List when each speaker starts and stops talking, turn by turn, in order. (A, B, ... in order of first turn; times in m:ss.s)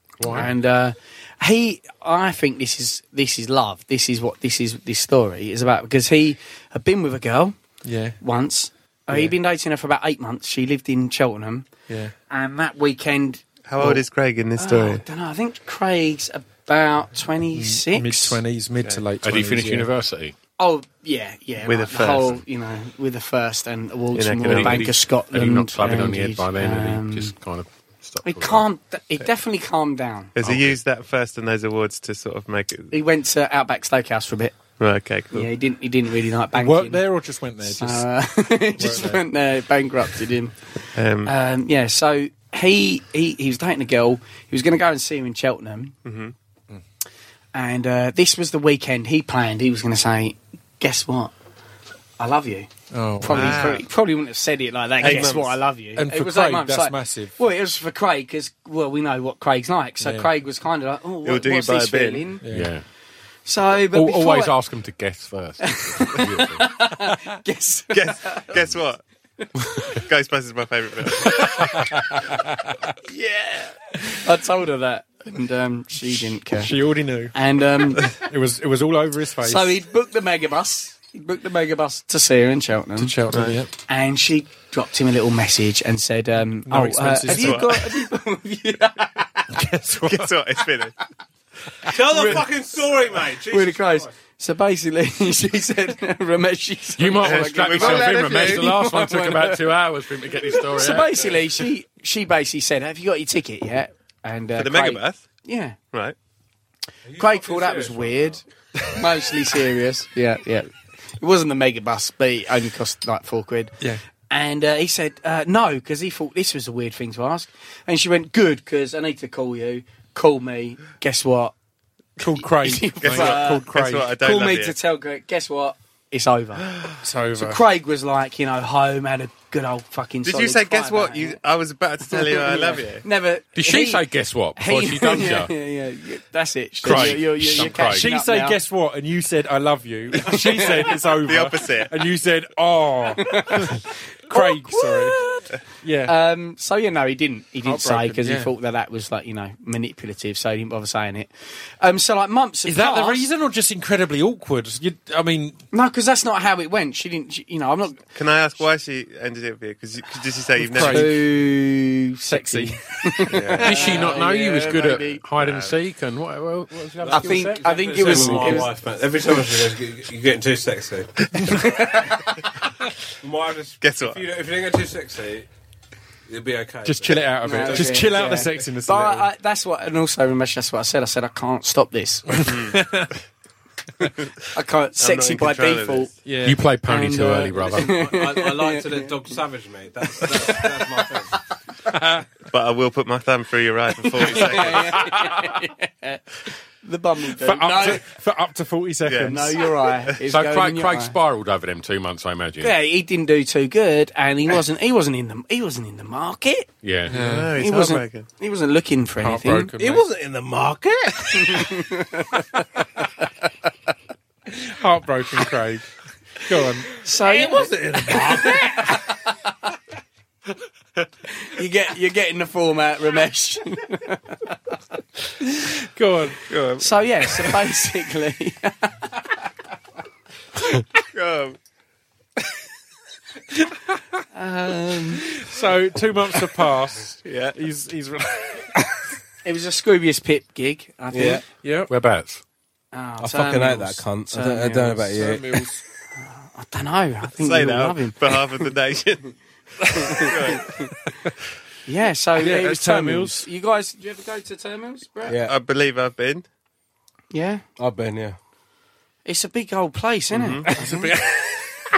0:00.3-0:07.6 A
0:07.8-0:08.2 B
0:08.2-0:11.7 A
0:11.9-0:12.1 B
0:12.3-0:14.0 A
0:13.7-0:15.0 C
0:14.6-0:18.4 A
0:17.5-0:19.9 B
0:19.2-0:20.3 D
0:20.6-0:27.3 A
0:21.6-0:22.4 C
0:24.1-0:24.9 C
0:24.4-0:28.6 D
0:28.2-0:30.4 A
0:30.3-0:32.9 C
0:32.9-0:34.6 A
0:34.8-0:35.5 C
0:35.3-0:37.0 A
0:36.5-0:38.1 B
0:37.6-0:45.9 A
0:38.8-0:39.2 B
0:40.9-0:41.3 C
0:46.0-0:46.3 C
0:47.5-0:51.3 A
0:52.2-1:02.4 A
0:52.9-0:53.8 B
0:53.2-0:53.8 C
0:55.0-0:55.6 C
0:56.0-0:57.3 B
1:00.0-1:00.3 B
1:01.2-1:02.3 C
1:02.4-1:02.7 B
1:02.5-1:02.8 D
1:03.4-1:04.6 A
1:03.9-1:06.7 D
1:05.6-1:08.6 A
1:07.9-1:09.0 C
1:09.9-1:11.7 C
1:11.6-1:12.9 B
1:13.0-1:16.7 A
1:16.5-1:17.3 B
1:17.3-1:18.2 A
1:18.0-1:19.7 B
1:19.4-1:23.2 A
1:23.0-1:23.7 B
1:23.3-1:23.6 C
1:23.9-1:29.6 A
1:26.6-1:27.8 B
1:27.3-1:27.8 C
1:29.6-1:30.3 B
1:29.9-1:30.9 C
1:31.8-1:34.1 E
1:31.9-1:32.8 A
1:33.5-1:39.8 A
1:37.0-1:41.4 D
1:37.2-1:38.7 C
1:40.3-1:45.8 A
1:44.5-1:45.2 C
1:47.0-1:48.4 E
1:47.2-2:01.5 A
2:02.2-2:04.1 B
2:02.4-2:03.6 A
2:03.0-2:04.8 C
2:04.2-2:06.7 A
2:07.0-2:07.6 B
2:07.4-2:11.4 A
2:10.2-2:13.0 C
2:12.1-2:18.6 A
2:13.6-2:15.5 D
2:16.8-2:18.1 D
2:16.9-2:25.2 B
2:20.1-2:20.9 A
2:20.6-2:21.9 C
2:23.2-2:25.5 A
2:25.8-2:26.1 B
2:26.0-2:33.3 A
2:27.6-2:28.5 B
2:32.6-2:35.6 B
2:35.7-2:38.1 A
2:38.1-2:41.2 C
2:40.6-2:41.2 B
2:40.8-2:45.2 A
2:42.3-2:43.3 B
2:43.3-2:43.6 C
2:43.5-2:48.6 D
2:45.4-2:45.7 C
2:47.0-2:51.3 E
2:47.1-2:48.7 A
2:51.4-2:52.4 A
2:53.2-2:55.5 E
2:53.8-2:54.2 C
2:56.3-2:58.4 E
2:56.8-2:59.3 B
2:57.4-3:02.5 A
3:02.3-3:03.1 B
3:02.4-3:02.8 C
3:04.5-3:06.1 A
3:05.0-3:06.1 C
3:06.2-3:06.6 B
3:06.4-3:08.0 D
3:06.8-3:09.1 A
3:07.6-3:11.4 E
3:10.2-3:10.7 A
3:11.9-3:12.2 B
3:12.5-3:15.1 C
3:14.1-3:18.0 A
3:17.4-3:19.6 B
3:19.0-3:19.6 C
3:19.2-3:21.1 A
3:20.3-3:22.8 D
3:22.6-3:26.7 A
3:26.8-3:27.2 D
3:27.1-3:27.5 B
3:27.1-3:28.3 C
3:27.6-3:29.7 A
3:29.2-3:30.0 B
3:29.8-3:31.8 E
3:31.3-3:32.6 A
3:34.5-3:35.9 B
3:36.4-3:36.9 B
3:37.0-3:39.4 A
3:37.2-3:39.0 E
3:41.4-3:44.6 A
3:45.4-3:46.4 B
3:46.5-3:47.0 C
3:46.8-3:49.5 A
3:51.0-3:51.6 C
3:53.6-3:54.0 B
3:54.3-3:55.4 A
3:55.2-3:58.7 B
3:57.2-3:57.6 C
3:59.4-4:01.4 A
4:01.1-4:01.4 E
4:01.6-4:01.9 B
4:01.9-4:02.4 D
4:02.9-4:05.1 A
4:03.2-4:05.4 E
4:05.1-4:05.8 B
4:06.2-4:08.4 A
4:07.3-4:09.3 C
4:09.9-4:10.7 C
4:10.0-4:10.8 A
4:11.8-4:15.4 A
4:12.4-4:13.5 B
4:15.2-4:15.5 E
4:15.4-4:16.4 C
4:17.3-4:17.6 A
4:17.8-4:18.4 E
4:19.2-4:21.1 A
4:20.3-4:20.7 C
4:20.7-4:21.8 B